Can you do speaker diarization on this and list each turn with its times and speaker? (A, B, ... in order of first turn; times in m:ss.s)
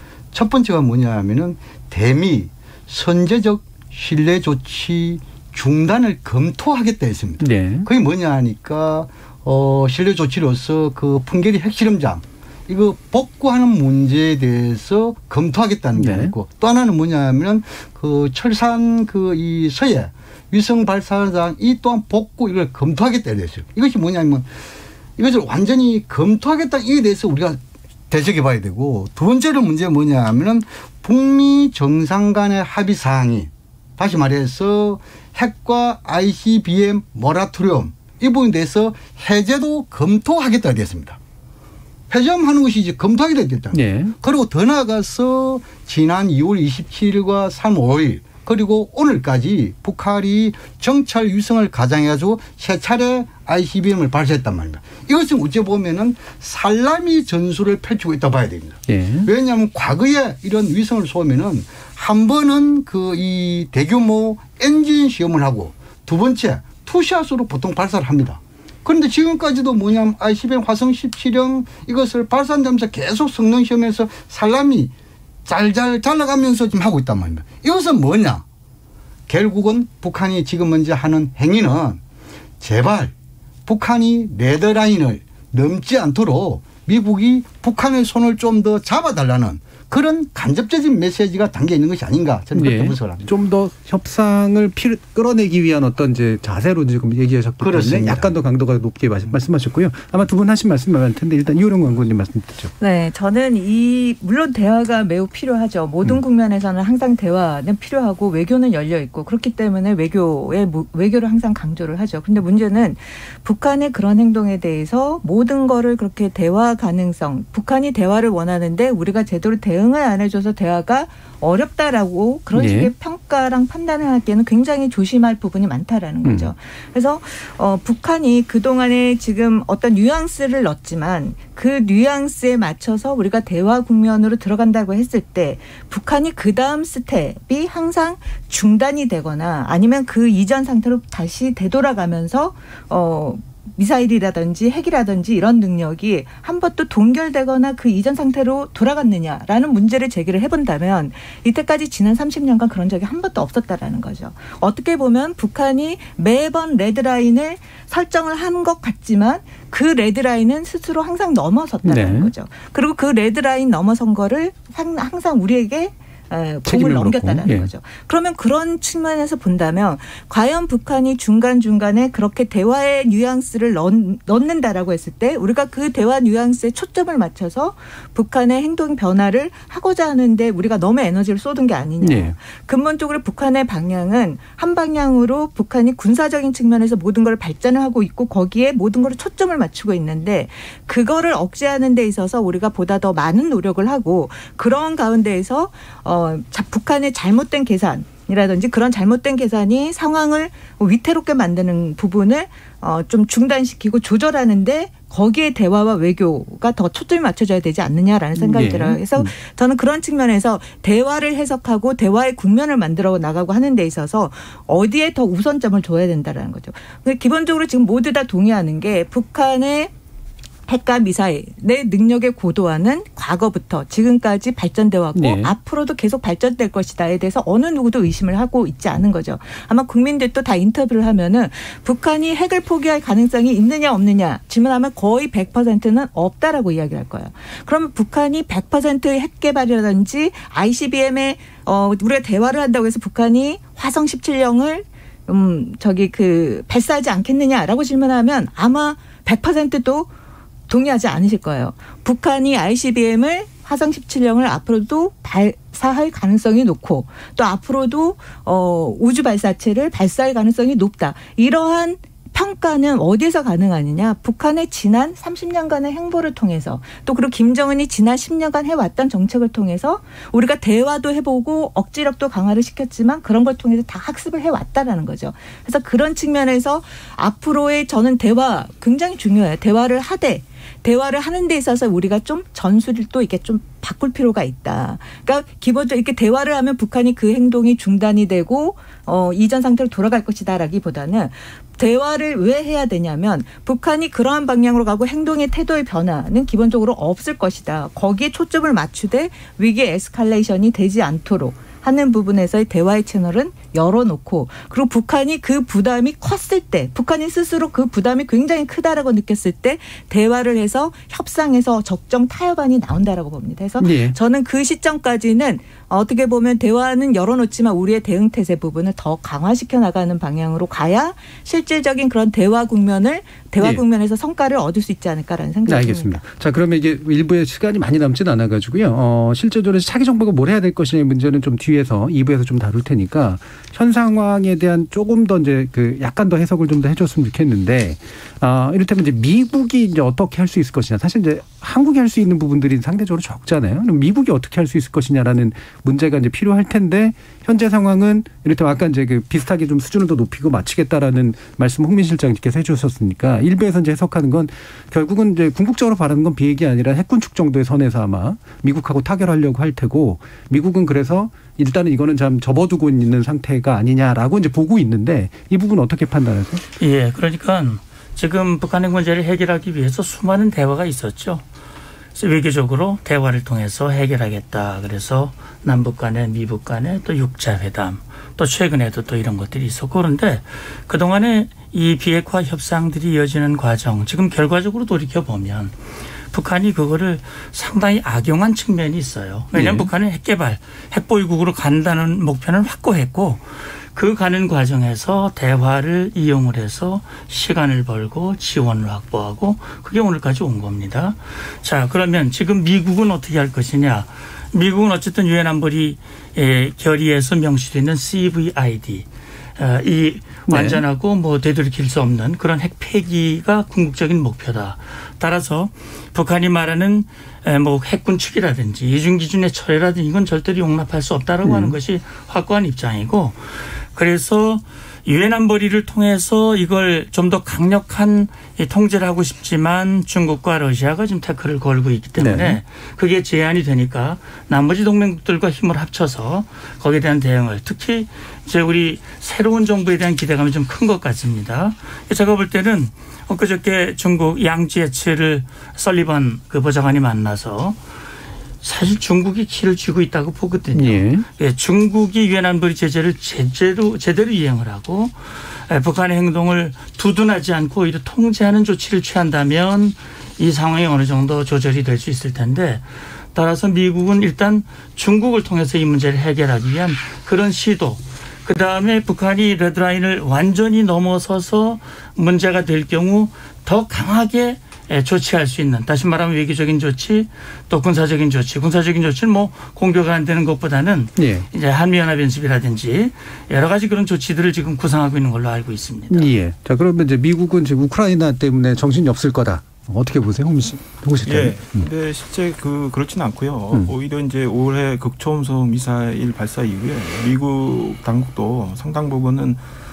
0:00.3-0:24.5 A
0:07.4-0:07.9 B
0:15.9-0:16.3 B
0:25.2-0:41.2 A
0:42.1-1:14.9 A
0:43.7-0:44.1 B
0:58.9-0:59.3 B
1:15.4-1:18.4 A
1:19.3-1:22.0 A
1:22.6-1:23.1 A
1:23.7-1:33.3 A
1:32.5-1:42.7 B
1:37.6-1:38.3 A
1:42.8-3:39.9 C
2:02.5-2:02.9 B
2:06.2-2:06.5 B
2:41.8-2:42.3 B
2:46.6-2:47.7 B
3:02.0-3:02.4 B
3:28.4-3:29.3 B
3:40.7-4:10.1 C
3:45.1-3:45.5 B
4:10.7-5:26.2 C
5:13.8-5:14.2 B
5:25.6-6:06.6 B
6:06.8-6:11.4 D
6:12.1-6:25.7 D
6:26.3-6:49.0 D
6:29.5-6:29.9 B
6:49.6-7:27.8 D
6:50.5-6:50.8 B
7:01.4-7:01.7 B
7:12.2-7:12.6 B
7:28.6-8:06.3 D
7:30.7-7:31.2 B
8:01.2-8:01.5 B
8:06.1-8:11.9 B
8:11.2-8:19.6 E